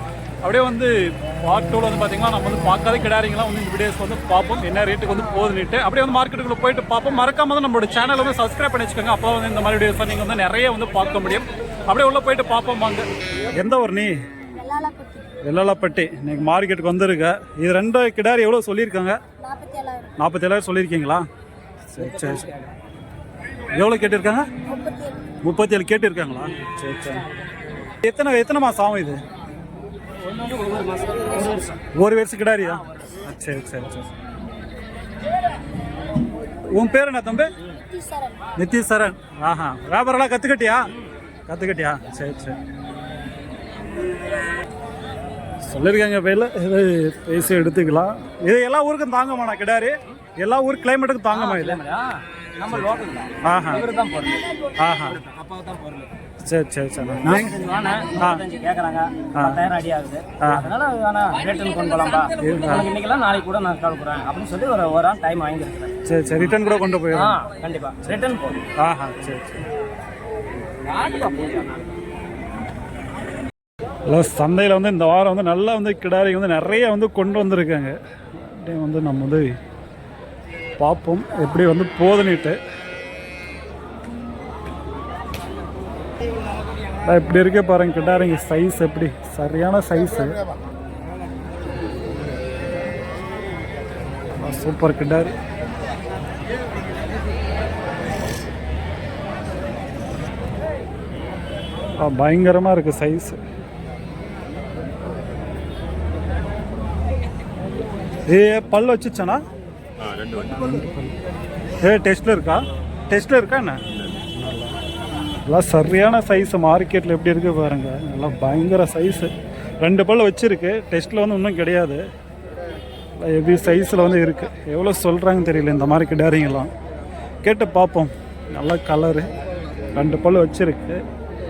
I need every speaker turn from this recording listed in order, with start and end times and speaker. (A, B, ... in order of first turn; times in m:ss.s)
0:00.4-0:14.1 A
0:14.5-0:15.3 B
0:15.4-0:19.2 A
0:19.4-0:20.1 B
0:20.2-0:21.2 A
0:21.9-0:22.5 A
0:22.0-0:22.5 C
0:23.7-0:24.5 A
0:24.6-0:25.3 B
0:25.4-0:27.2 A
0:28.0-0:29.2 A
0:30.3-0:31.7 C
0:31.9-0:34.1 A
0:36.7-0:37.5 A
0:37.9-0:38.4 B
0:38.6-0:40.9 A
0:41.5-0:42.6 A
0:45.6-0:51.8 A
0:51.3-0:56.1 C
0:53.4-0:53.9 A
0:54.8-0:55.2 A
0:56.4-0:57.5 A
0:57.2-1:05.9 C
0:58.2-0:58.4 A
1:00.4-1:00.7 A
1:02.4-1:02.9 A
1:06.0-1:07.4 A
1:07.1-1:08.6 C
1:08.8-1:09.6 A
1:11.2-1:11.5 C
1:14.1-1:19.6 A
1:20.8-1:22.6 A
1:27.0-1:30.4 A
1:34.4-1:35.3 A
1:42.0-1:43.4 A
1:48.3-1:49.4 A
1:51.8-1:54.7 A
1:55.4-2:02.0 A
2:03.2-2:06.7 A
2:07.4-2:09.3 A
2:09.9-2:11.0 A